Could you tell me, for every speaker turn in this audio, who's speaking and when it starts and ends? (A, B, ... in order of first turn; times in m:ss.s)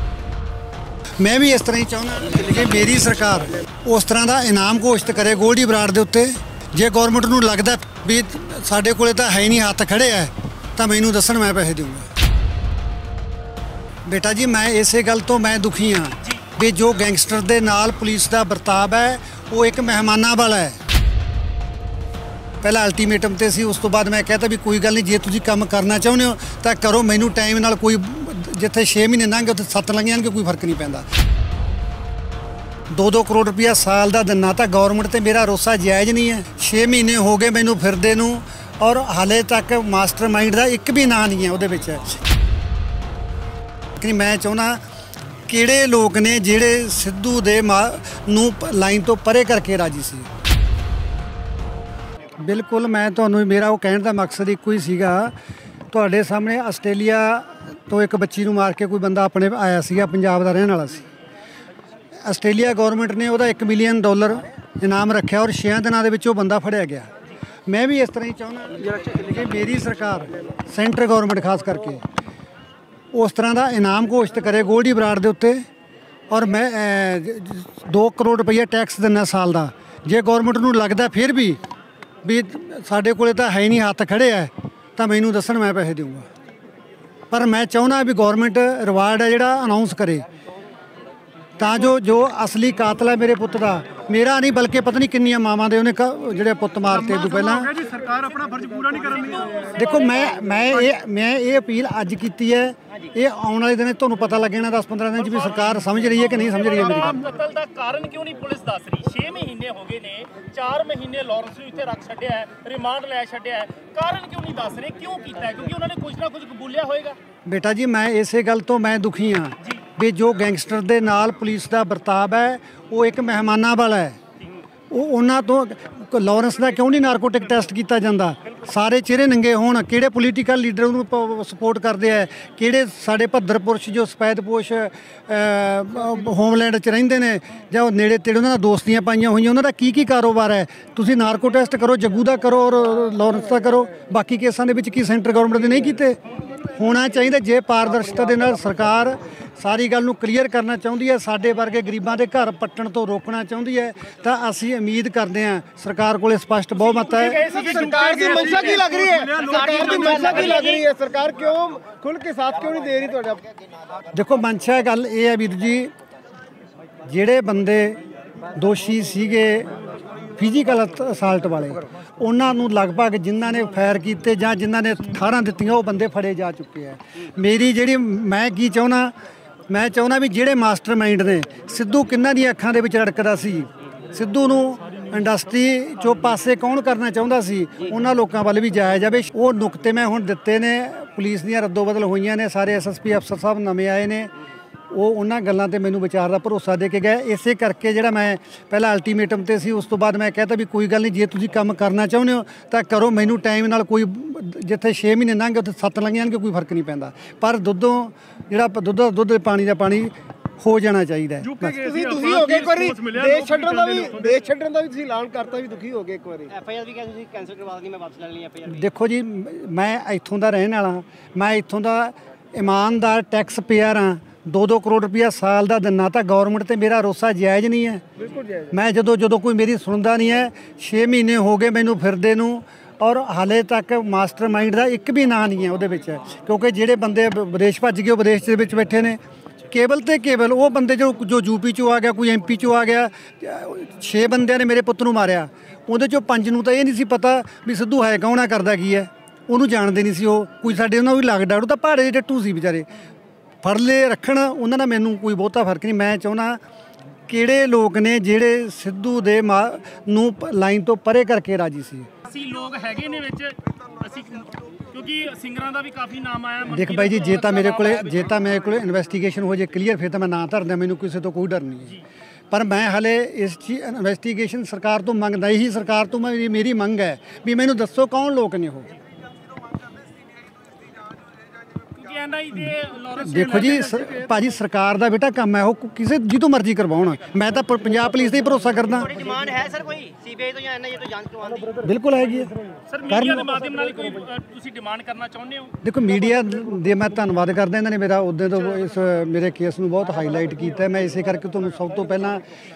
0:01.2-0:12.1 A
0:14.0-0:20.8 A
0:22.6-0:31.0 A
0:32.9-0:42.2 A
0:44.0-0:44.8 A
0:45.5-0:50.3 A
0:52.4-0:55.3 A
0:55.9-1:01.0 A
1:02.2-1:07.1 A
1:07.7-1:12.0 A
1:13.1-1:15.6 A
1:16.3-1:21.6 A
1:22.2-1:26.2 A
1:27.3-1:30.2 A
1:31.6-1:37.8 A
1:37.0-1:40.6 B
1:39.7-1:47.3 A
1:45.2-1:57.2 B
1:57.4-2:04.2 A
2:04.9-2:37.5 A
2:36.7-2:40.8 B
2:37.4-2:43.4 C
2:39.4-2:40.8 D
2:44.1-2:45.9 A
2:47.0-2:48.0 A
2:48.5-2:49.7 A
2:50.4-2:59.1 A
2:59.7-3:14.3 A
3:14.9-3:31.8 A
3:31.4-3:34.4 B
3:31.8-3:36.5 C
3:36.5-3:38.8 D
3:38.7-3:48.0 A
3:48.7-4:12.9 A
4:13.6-4:16.6 A
4:17.3-4:22.1 A
4:22.2-4:28.5 B
4:26.7-4:32.0 A
4:32.5-4:38.9 A
4:42.0-4:44.3 B
4:43.2-4:49.3 A
4:49.0-4:51.8 D
4:51.8-4:52.5 A
4:52.9-4:55.7 B
4:53.1-4:53.5 A
4:55.8-5:02.4 A